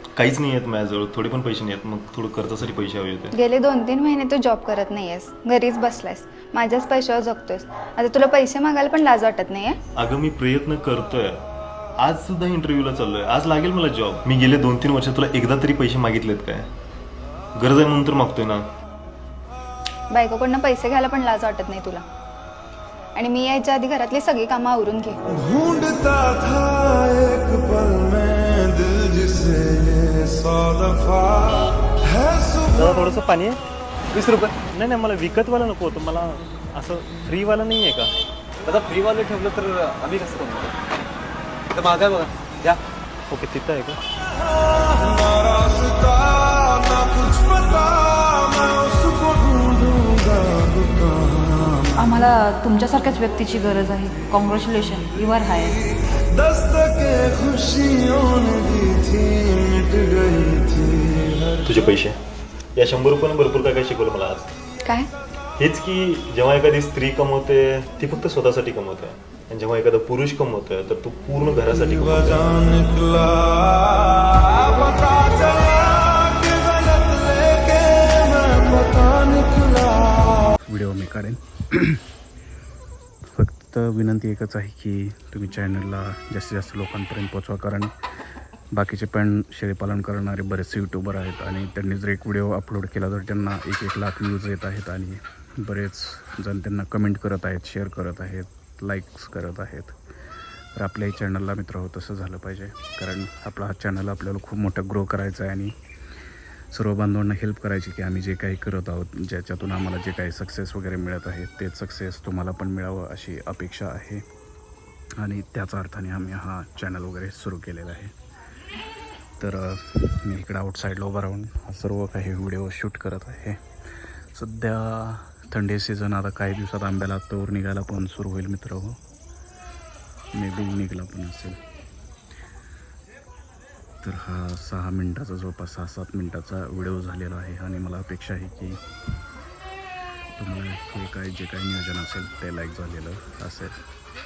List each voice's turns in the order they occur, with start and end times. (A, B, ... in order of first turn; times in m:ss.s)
0:00.2-0:03.3 A
0:03.3-0:09.8 B
0:10.0-0:11.4 A
0:12.0-0:16.7 A
0:17.6-0:18.6 A
0:20.1-0:22.0 B
0:23.2-0:25.3 B
0:25.3-0:33.1 C
0:32.8-0:33.6 A
0:34.1-0:34.6 D
0:34.2-0:38.1 A
0:38.7-0:40.7 D
0:41.7-0:42.8 D
0:43.3-0:44.0 A
0:44.9-0:51.9 C
0:52.0-0:55.8 E
0:56.2-1:01.6 C
1:01.6-1:02.2 A
1:02.8-1:04.5 A
1:04.8-1:05.1 B
1:05.6-1:12.6 A
1:12.0-1:20.3 C
1:20.7-1:22.0 F
1:23.3-1:27.9 F
1:28.7-1:40.0 F
1:40.8-1:45.8 F
1:46.7-1:54.2 F
1:55.2-1:58.1 F
1:59.4-2:09.0 F
2:10.3-2:11.6 F
2:14.0-2:18.8 F
2:20.4-2:23.8 F